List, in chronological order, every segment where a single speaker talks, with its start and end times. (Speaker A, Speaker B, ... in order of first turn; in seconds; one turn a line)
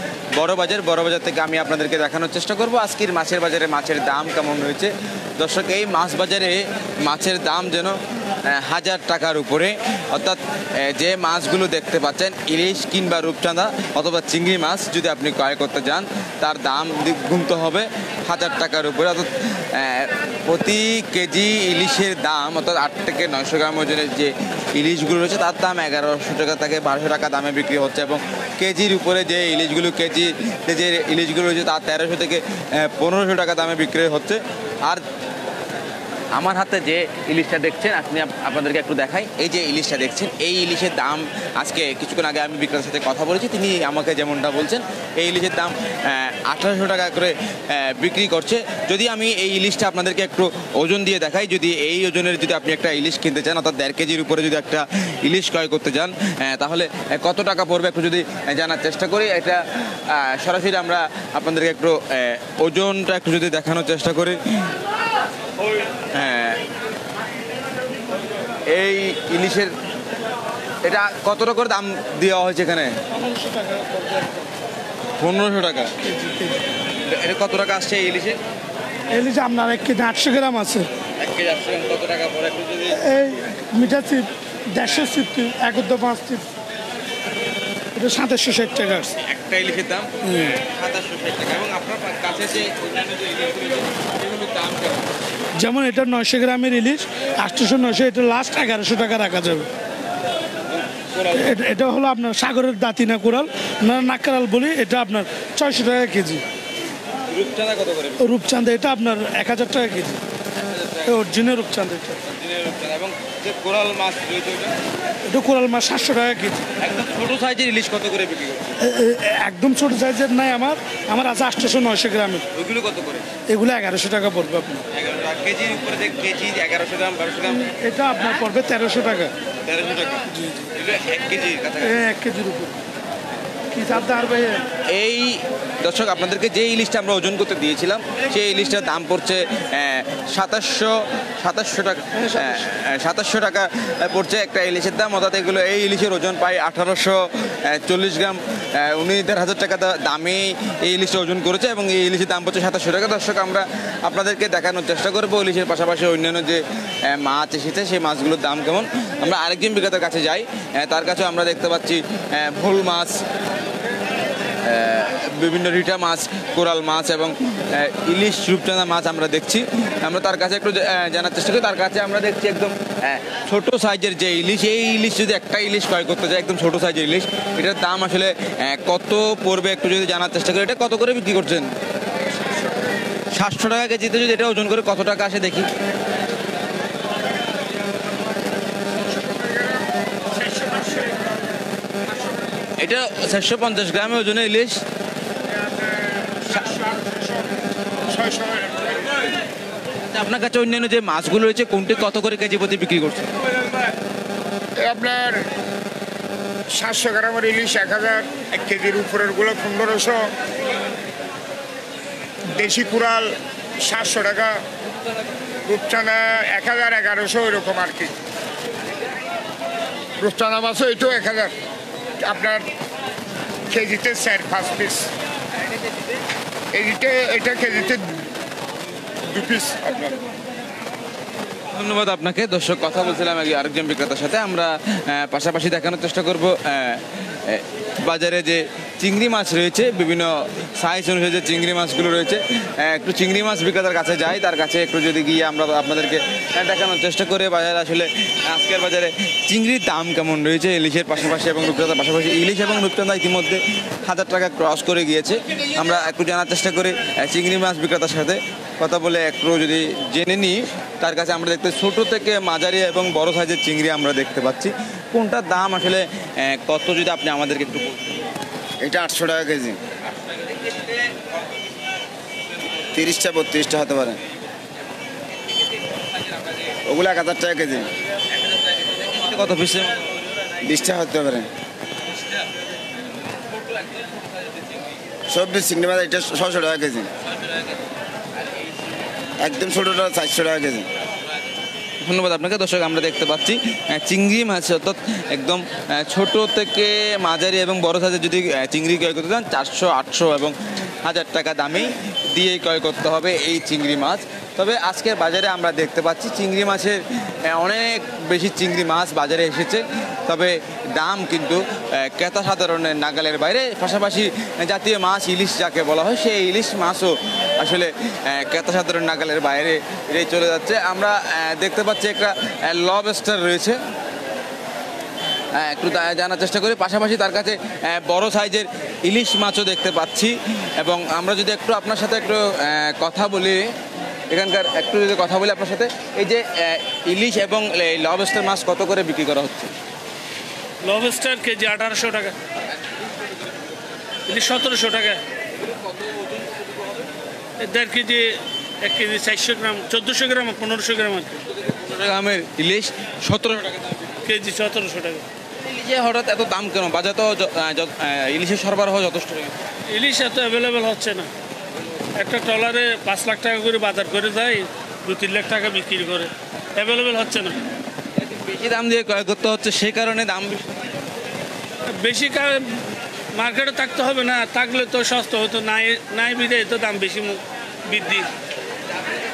Speaker A: 0.3-35.0
Speaker A: 36.4-64.4
Speaker A: 66.1-66.6
Speaker A: 68.7-69.7
Speaker A: 70.8-73.0
Speaker B: 73.1-74.5
Speaker A: 75.2-75.9
Speaker B: 76.0-76.6
Speaker A: 77.0-78.4
Speaker B: 79.1-80.9
Speaker A: 81.2-83.0
Speaker B: 82.9-86.5
Speaker A: 84.9-85.1
Speaker B: 88.0-89.2
Speaker A: 89.2-95.0
Speaker B: 95.6-99.7
Speaker A: 100.7-101.5
Speaker B: 101.3-106.4
Speaker A: 107.3-108.3
Speaker B: 108.2-110.2
Speaker A: 110.7-111.2
Speaker B: 111.0-112.2
Speaker A: 112.2-114.8
Speaker B: 115.3-116.7
Speaker A: 116.8-118.8
Speaker B: 118.8-122.4
Speaker A: 122.5-123.3
Speaker B: 123.5-124.8
Speaker A: 124.9-127.7
Speaker B: 127.7-129.3
Speaker A: 129.7-132.0
Speaker B: 130.3-130.7
Speaker B: 131.8-132.8
Speaker B: 133.7-134.7
Speaker A: 134.9-163.2
Speaker B: 142.2-142.6
Speaker A: 164.6-181.7
Speaker A: 183.3-185.7
Speaker C: 189.1-189.8
Speaker C: 190.3-191.3
Speaker A: 192.8-194.8
Speaker C: 195.8-199.2
Speaker A: 200.1-203.3
Speaker C: 204.8-205.5
Speaker C: 206.7-210.3
Speaker C: 212.5-214.6
Speaker C: 215.6-218.2
Speaker C: 220.2-221.6
Speaker C: 222.2-222.7
Speaker C: 223.7-225.1
Speaker C: 226.7-228.2
Speaker C: 229.3-230.2
Speaker A: 231.7-268.2
Speaker D: 268.8-269.8
Speaker A: 270.5-270.9
Speaker D: 272.9-274.2
Speaker D: 276.9-277.9
Speaker A: 278.5-280.0
Speaker D: 280.6-281.5
Speaker D: 285.3-287.1
Speaker D: 289.4-290.9
Speaker A: 292.0-323.8
Speaker A: 325.5-333.7
Speaker A: 334.3-339.7
Speaker E: 340.8-342.4
Speaker E: 344.3-345.2
Speaker E: 347.6-351.4
Speaker A: 351.6-354.1
Speaker E: 354.3-355.2
Speaker A: 355.6-359.6
Speaker E: 359.9-361.3
Speaker E: 362.2-367.6
Speaker A: 368.2-370.7
Speaker E: 372.0-372.8
Speaker E: 373.3-378.3